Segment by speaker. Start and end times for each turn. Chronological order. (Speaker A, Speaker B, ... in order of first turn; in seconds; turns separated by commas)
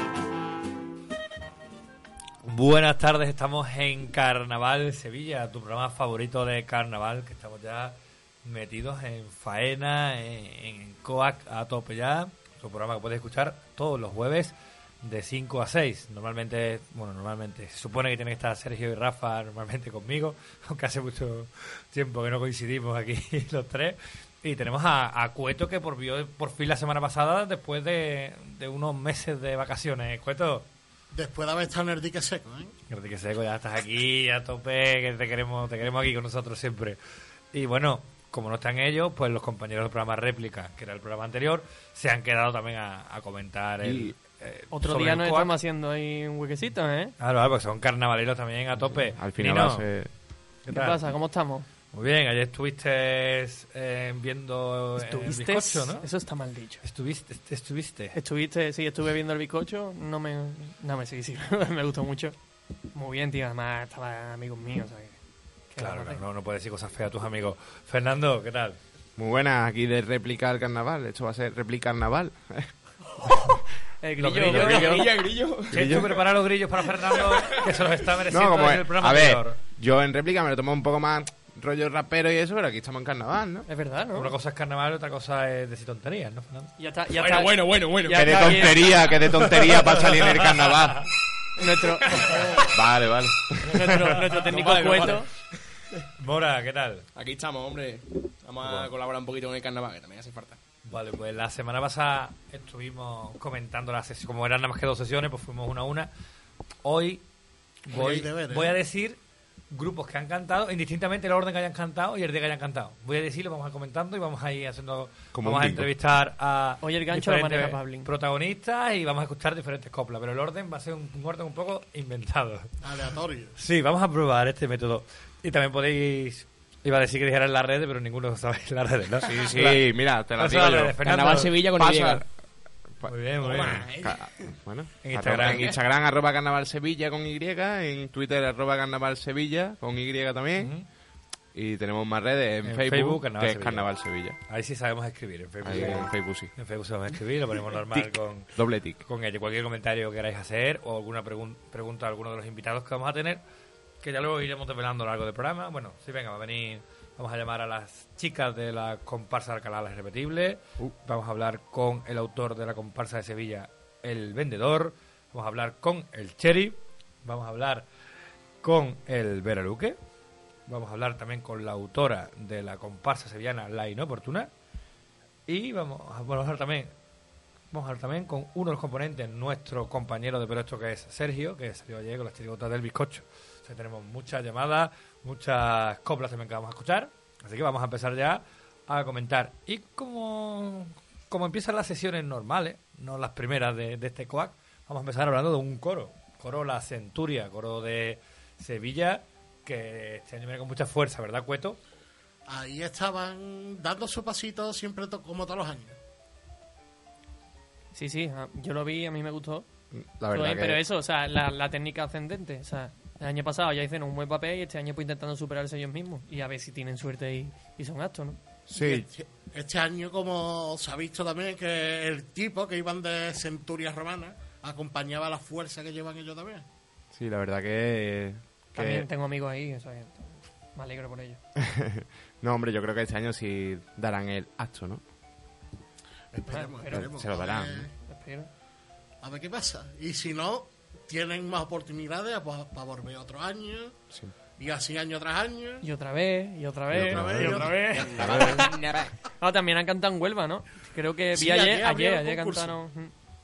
Speaker A: 2.4-30.6, Speaker B: 31.1-32.7, Speaker A: 32.9-37.0, Speaker A: 37.5-45.5, Speaker C: 43.8-44.1, Speaker D: 44.7-47.1, Speaker A: 47.2-51.1, Speaker C: 48.8-50.1, Speaker D: 50.7-51.7, Speaker A: 51.9-56.1, Speaker D: 55.0-56.8, Speaker A: 56.8-58.2, Speaker D: 58.1-62.4, Speaker D: 62.9-65.2, Speaker D: 65.7-66.2, Speaker A: 65.8-68.8, Speaker C: 69.2-72.9, Speaker D: 74.0-75.1, Speaker A: 74.2-75.0, Speaker E: 74.4-76.3, Speaker C: 74.6-75.1, Speaker C: 75.7-76.1, Speaker A: 75.7-79.6, Speaker E: 76.9-77.6, Speaker C: 78.3-83.7, Speaker D: 83.7-84.3, Speaker A: 84.1-86.7, Speaker D: 86.8-89.2, Speaker E: 87.1-89.2, Speaker C: 88.1-91.1, Speaker A: 89.3-90.9, Speaker D: 91.6-92.4, Speaker E: 92.2-92.6, Speaker C: 92.7-93.7, Speaker D: 93.6-95.3, Speaker E: 94.2-95.3, Speaker A: 94.3-95.1, Speaker A: 96.2-97.1, Speaker E: 97.2-100.6, Speaker A: 98.6-98.9, Speaker A: 100.9-106.1, Speaker A: 106.8-107.2, Speaker A: 107.9-109.2, Speaker B: 107.9-108.8, Speaker A: 109.7-122.7, Speaker C: 115.3-115.9, Speaker D: 116.8-118.1, Speaker B: 122.8-123.6, Speaker A: 123.6-131.6, Speaker C: 129.2-140.8, Speaker E: 131.1-132.2, Speaker A: 133.1-133.8, Speaker B: 133.4-134.3, Speaker E: 133.5-133.9, Speaker A: 135.0-135.8, Speaker E: 135.5-135.8, Speaker A: 140.6-140.8, Speaker C: 141.5-144.4, Speaker A: 142.6-153.4, Speaker C: 145.6-146.5, Speaker C: 147.9-149.0, Speaker A: 154.0-167.9, Speaker A: 168.6-170.0, Speaker A: 170.7-174.5, Speaker A: 175.5-176.9, Speaker A: 177.7-201.8, Speaker B: 202.5-206.0, Speaker D: 207.9-209.7, Speaker C: 209.9-210.8, Speaker D: 210.3-218.4, Speaker C: 218.7-219.1, Speaker B: 218.7-226.7, Speaker C: 227.1-229.1, Speaker D: 228.8-231.4, Speaker C: 231.6-235.0, Speaker B: 236.3-237.9, Speaker D: 236.5-237.1, Speaker C: 236.9-237.9, Speaker D: 238.1-238.5, Speaker B: 239.2-244.0, Speaker B: 244.5-245.8, Speaker D: 245.8-248.7, Speaker C: 246.9-248.7, Speaker B: 247.0-248.0, Speaker E: 247.8-249.1, Speaker D: 249.4-253.1, Speaker B: 251.3-252.8